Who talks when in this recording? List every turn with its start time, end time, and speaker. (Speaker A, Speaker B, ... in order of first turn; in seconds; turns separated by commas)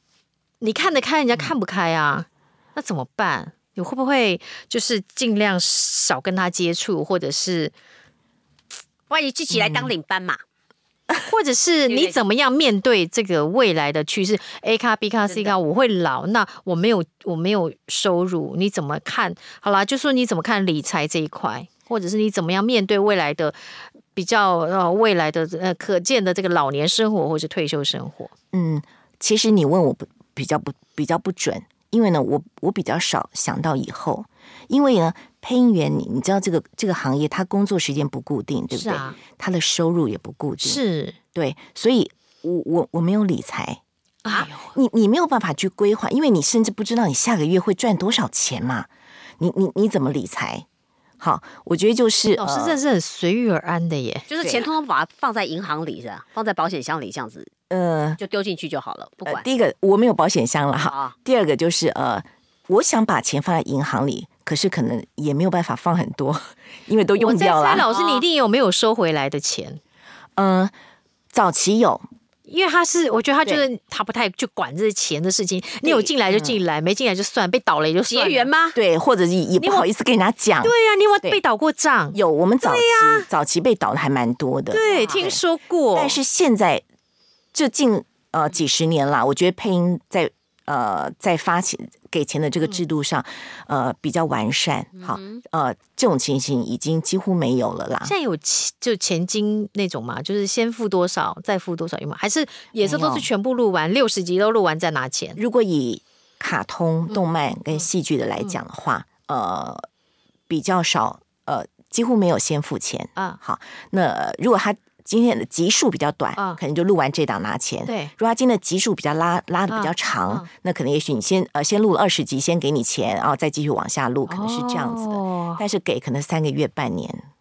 Speaker A: 0.6-7.7, Speaker B: 9.1-10.4, Speaker C: 9.5-9.9, Speaker A: 11.3-23.6, Speaker B: 11.9-12.2, Speaker B: 15.3-15.5, Speaker A: 24.1-28.3, Speaker C: 28.5-40.8, Speaker A: 38.7-39.2, Speaker A: 40.6-41.2, Speaker C: 41.4-43.8, Speaker A: 44.2-44.7, Speaker C: 44.6-48.9, Speaker C: 49.4-50.7, Speaker C: 51.2-52.8, Speaker A: 52.4-54.3, Speaker B: 54.3-57.5, Speaker C: 54.4-54.7, Speaker C: 57.7-58.2, Speaker B: 58.2-59.5, Speaker C: 59.2-67.9, Speaker B: 60.8-61.1, Speaker A: 67.2-69.8, Speaker B: 67.9-68.2, Speaker C: 70.4-70.7, Speaker C: 71.3-72.0, Speaker A: 72.5-78.5, Speaker C: 75.8-76.6, Speaker B: 78.1-78.8, Speaker C: 78.7-81.4, Speaker A: 80.6-83.3, Speaker C: 82.1-85.4, Speaker A: 84.7-86.2, Speaker B: 84.9-85.3, Speaker C: 85.9-86.8, Speaker C: 87.5-98.1, Speaker B: 95.0-95.4, Speaker A: 98.0-105.4, Speaker C: 102.8-103.3, Speaker C: 105.4-109.9, Speaker C: 110.5-127.3, Speaker A: 117.9-118.1, Speaker A: 119.7-120.5, Speaker A: 124.3-125.6